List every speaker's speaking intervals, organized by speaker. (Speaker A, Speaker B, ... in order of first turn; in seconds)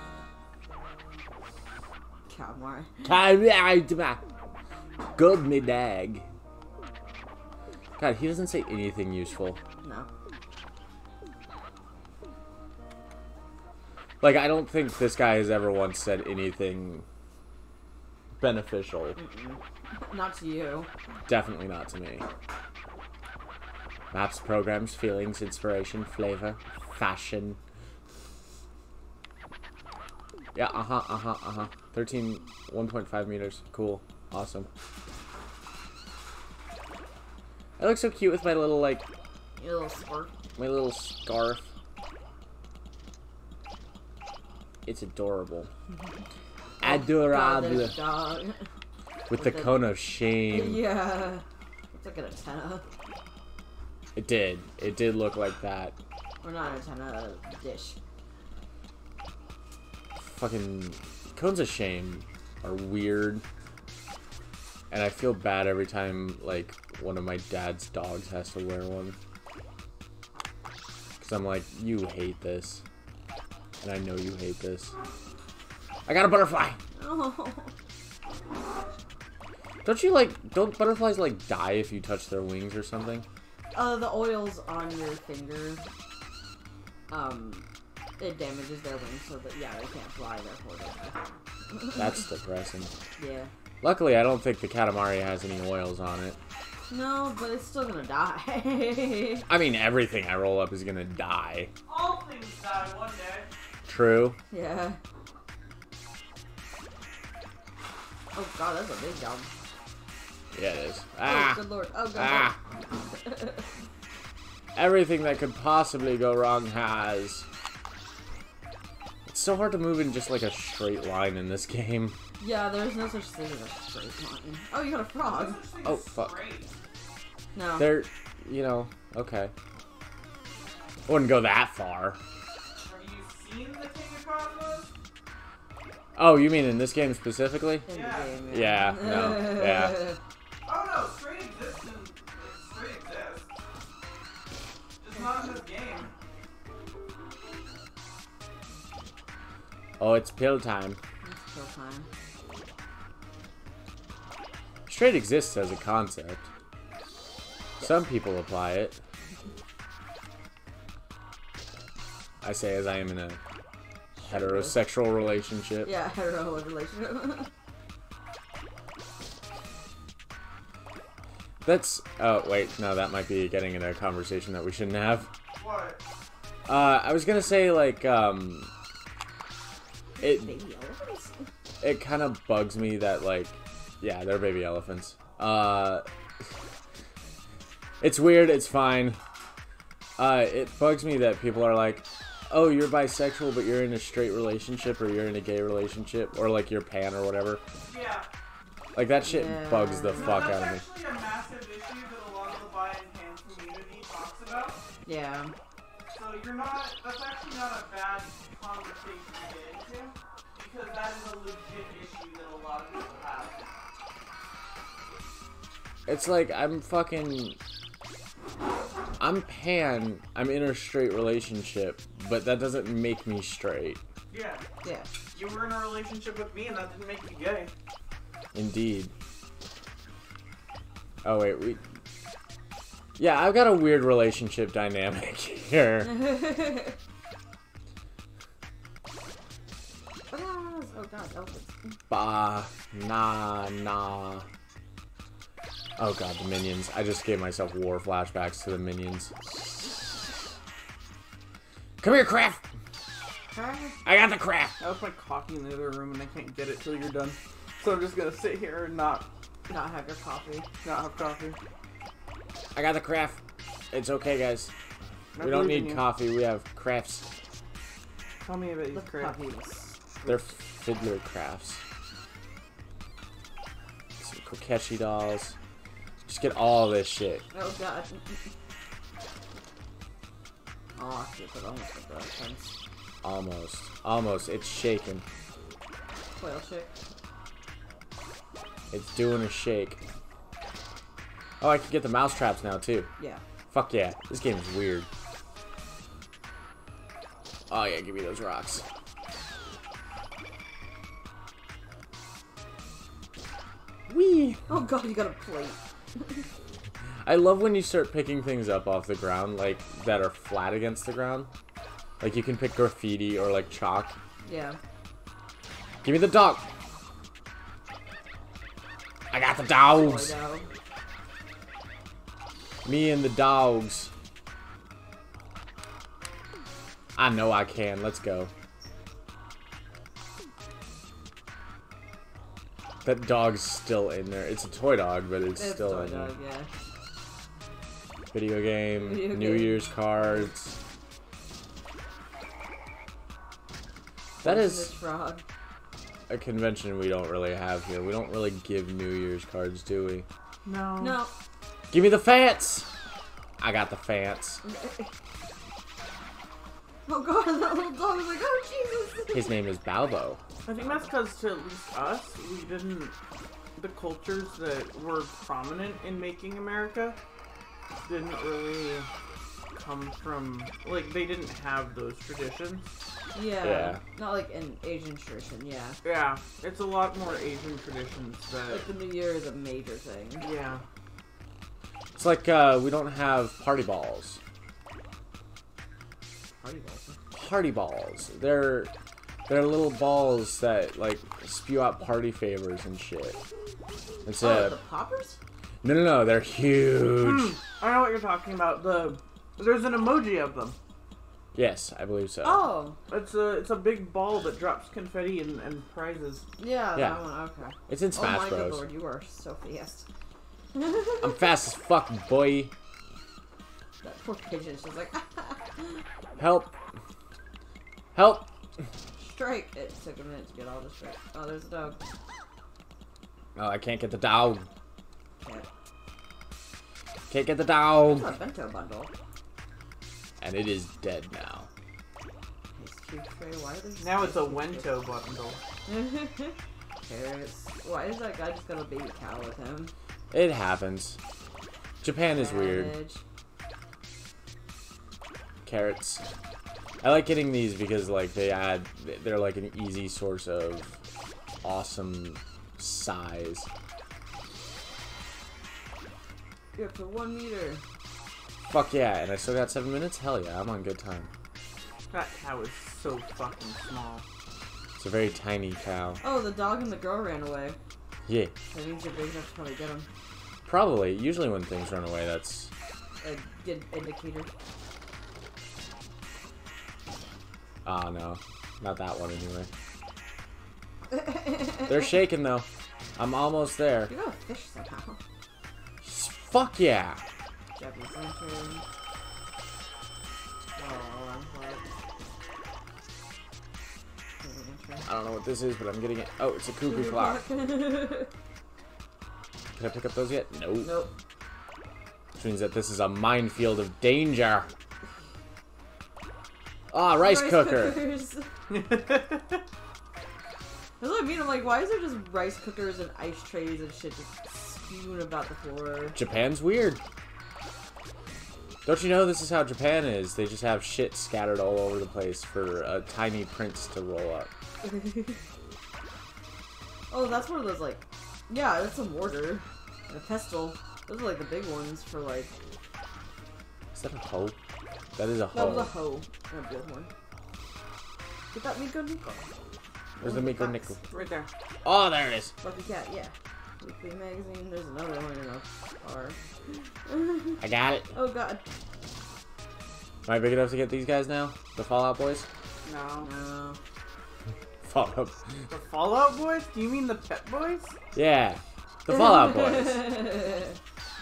Speaker A: 2.3-3.2, 9.8-10.1, 19.2-20.9, 39.6-40.3, 46.8-48.6, 49.3-49.9, 50.5-52.8, 56.4-58.0, 77.0-77.7, 83.7-85.8, 87.1-87.7, 88.2-91.2, 91.7-92.1, 93.2-93.5, 96.9-99.5, 104.5-105.0, 108.3-109.5, 111.2-113.6, 122.4-125.6, 127.5-128.0, 137.9-140.2, 151.2-152.1, 164.2-164.9, 165.8-167.5, 180.2-181.5, 199.2-200.6, 205.0-205.5, 224.8-225.1, 236.0-236.9, 240.3-241.7, 253.5-253.9, 259.7-260.7, 268.9-270.0, 277.5-278.4, 280.9-282.7, 286.4-286.9, 304.7-306.4, 314.4-314.8, 319.8-320.7, 335.6-336.7, 339.0-340.4, 344.4-345.4, 351.0-351.3, 354.6-355.1, 357.1-359.6, 360.7-361.1, 373.3-376.0, 378.7-380.5, 386.6-387.2, 394.4-395.4, 402.4-403.0, 406.6-410.1, 410.7-411.4, 414.0-416.0, 419.2-422.0, 425.4-425.7, 428.0-429.1, 432.7-434.9, 435.9-439.9, 442.3-443.2, 456.7-457.8, 466.2-467.8, 468.7-470.1, 473.2-474.5, 481.1-482.1, 484.1-485.2, 487.7-488.8, 490.8-491.8, 494.4-495.1, 496.8-498.3, 500.8-501.1, 507.2-508.5, 511.0-516.2, 524.8-525.4, 527.1-532.6, 535.5-537.1, 538.5-539.4, 540.2-541.3, 542.6-546.4, 547.0-548.6, 553.2-553.8, 559.1-560.8
Speaker B: 3.0-4.2, 5.2-6.3, 8.0-9.6, 14.2-17.0, 18.4-19.2, 21.3-22.2, 24.1-27.6, 30.5-34.7, 37.8-39.0, 40.6-41.7, 44.8-45.7, 46.8-48.0, 49.3-50.9, 54.1-56.0, 60.2-63.4, 64.9-69.2, 71.2-72.8, 73.8-74.9, 76.1-76.8, 79.8-83.2, 91.9-92.9, 93.8-96.4, 99.5-101.7, 103.9-104.4, 110.5-111.6, 112.1-112.5, 114.7-117.5, 119.3-122.2, 125.8-126.4, 127.8-129.5, 131.1-132.2, 136.2-137.9, 138.5-140.1, 150.0-151.0, 154.9-156.5, 157.8-159.0, 162.4-163.4, 164.3-165.9, 171.6-175.3, 176.7-178.7, 180.2-180.5, 181.8-186.0, 188.0-189.2, 190.2-197.6, 198.9-200.8, 216.1-217.6, 219.2-224.0, 228.5-229.1, 231.2-231.8, 233.2-236.2, 242.1-244.4, 246.0-249.3, 252.0-252.6, 254.0-254.8, 262.7-263.4, 263.9-264.7, 265.4-267.2, 270.2-271.8, 274.2-275.6, 276.2-277.4, 283.2-285.2, 288.9-290.0, 291.6-293.1, 293.7-295.1, 297.7-298.8, 304.1-304.7, 307.2-311.5, 312.2-314.1, 316.0-316.6, 319.3-320.3, 322.8-324.1, 327.1-328.5, 333.0-336.3, 338.3-340.8, 344.4-344.9, 346.3-350.2, 351.9-352.9, 353.6-354.6, 359.3-360.4, 373.6-374.0, 382.2-384.4, 387.3-388.9, 389.5-393.4, 394.2-394.8, 395.8-397.6, 401.5-402.6, 406.9-407.2, 407.9-408.9, 411.2-412.7, 416.4-416.8, 418.1-418.5, 423.6-424.7, 427.3-428.3, 430.4-431.7, 440.3-441.2, 442.0-443.0, 445.6-446.2, 447.0-451.0, 451.6-453.7, 458.6-461.3, 465.0-466.2, 468.2-468.5, 470.6-472.7, 477.8-479.7, 481.8-484.1, 486.0-487.2, 495.1-497.4, 499.8-501.0, 502.4-504.7, 506.9-508.1, 516.1-517.0, 518.8-524.5, 533.9-534.5, 535.1-536.0, 540.2-541.0, 541.8-542.5, 547.6-548.1, 550.2-552.5, 554.8-555.3, 558.1-560.2
Speaker C: 101.8-103.5, 125.2-126.7, 132.8-134.9, 137.9-138.4, 140.6-143.5, 145.0-146.1, 175.5-176.0, 197.8-198.3, 200.2-204.8, 206.1-213.6, 224.3-224.6, 225.3-227.7, 254.8-259.3, 260.8-261.6, 265.3-266.1, 268.4-269.4, 270.2-270.5, 350.6-351.2, 360.6-363.1, 363.8-367.2, 368.0-369.1, 369.7-372.9, 376.0-378.9, 380.4-380.8, 397.1-400.8, 403.1-406.4, 434.0-435.6, 462.1-464.2, 508.7-509.6, 541.1-541.5, 552.8-553.3, 555.7-558.0